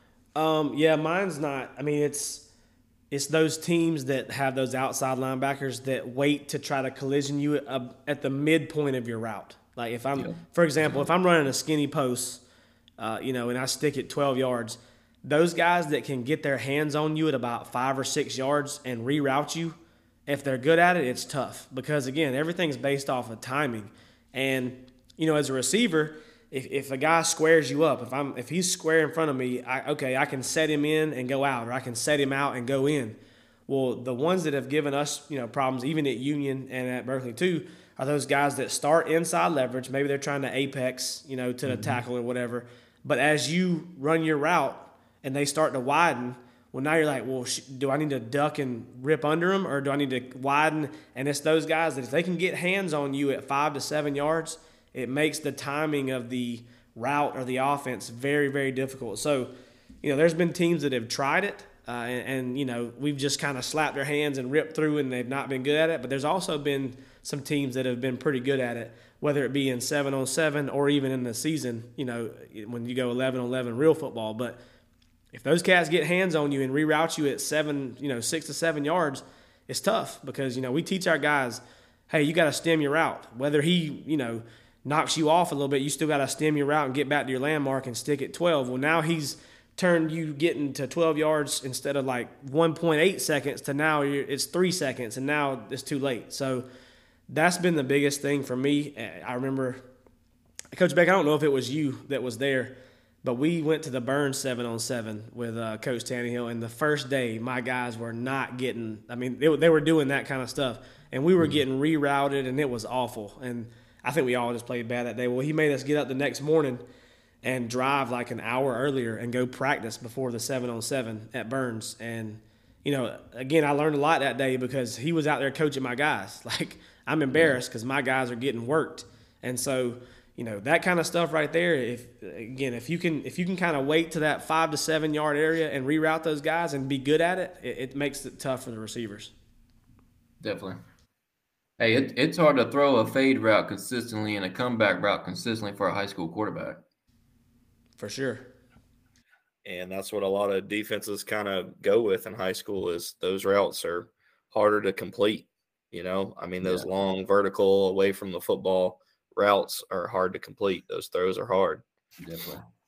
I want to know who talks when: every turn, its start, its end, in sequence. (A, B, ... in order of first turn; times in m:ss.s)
0:00.3-0:02.5 A
0:03.1-0:12.4 A
0:10.2-0:11.0 B
0:13.0-1:14.6 A
0:41.7-0:42.0 B
1:15.3-1:36.6 A
1:37.3-1:39.8 A
1:40.7-1:56.8 A
1:57.4-2:19.3 A
2:20.4-2:20.8 B
2:21.8-2:26.8 B
2:28.0-2:28.5 A
2:29.6-2:41.8 C
2:36.6-2:36.9 B
2:42.2-2:42.7 B